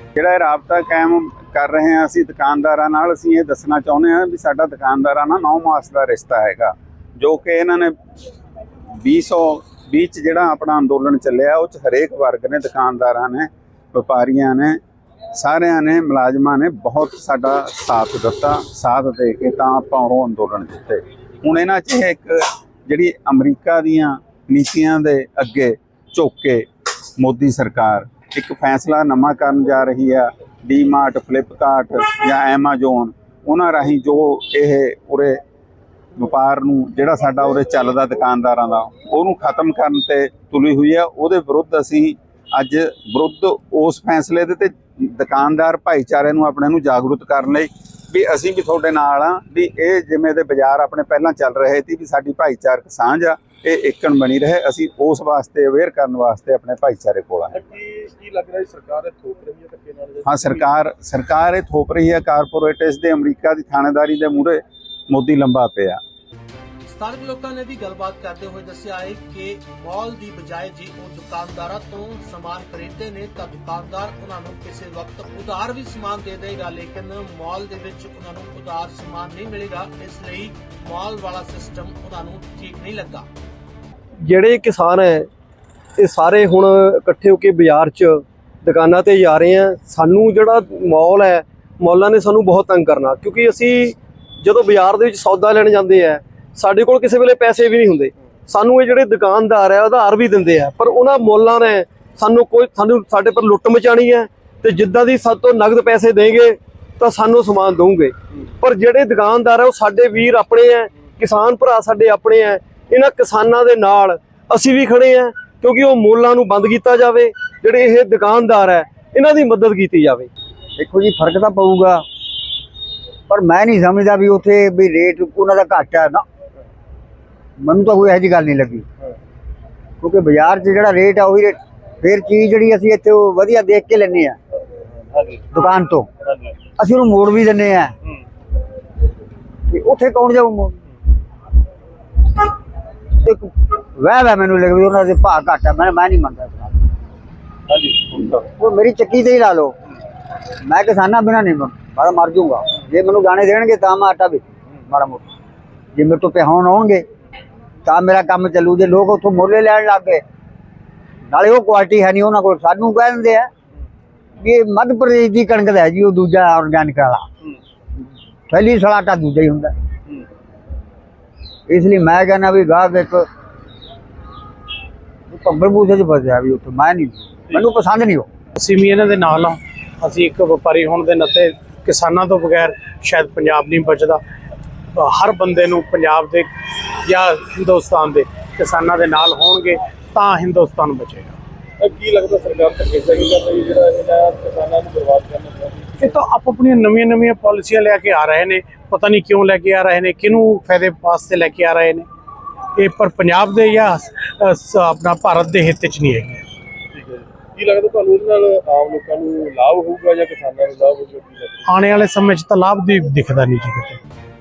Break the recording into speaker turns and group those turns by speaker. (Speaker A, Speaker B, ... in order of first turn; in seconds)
Speaker A: 0.2-8.0, 9.0-14.8, 15.4-26.7, 27.2-35.4, 36.1-57.6, 60.3-66.0
Speaker B: 57.5-60.7, 191.8-196.2, 206.9-211.7
Speaker C: 66.8-83.3
Speaker D: 84.3-85.3, 86.0-120.3
Speaker E: 120.8-122.0, 123.3-126.2, 127.6-128.8, 130.0-134.4, 135.5-136.1, 136.8-137.9, 139.7-140.8, 143.2-146.9, 148.3-149.8, 150.6-155.3, 155.9-157.1, 157.8-160.2, 161.3-163.5, 164.4-167.3, 168.5-169.8, 171.7-173.3, 175.3-178.3
Speaker F: 178.6-184.2, 185.0-186.5, 187.0-191.4, 196.0-202.1, 202.8-206.4, 211.7-214.0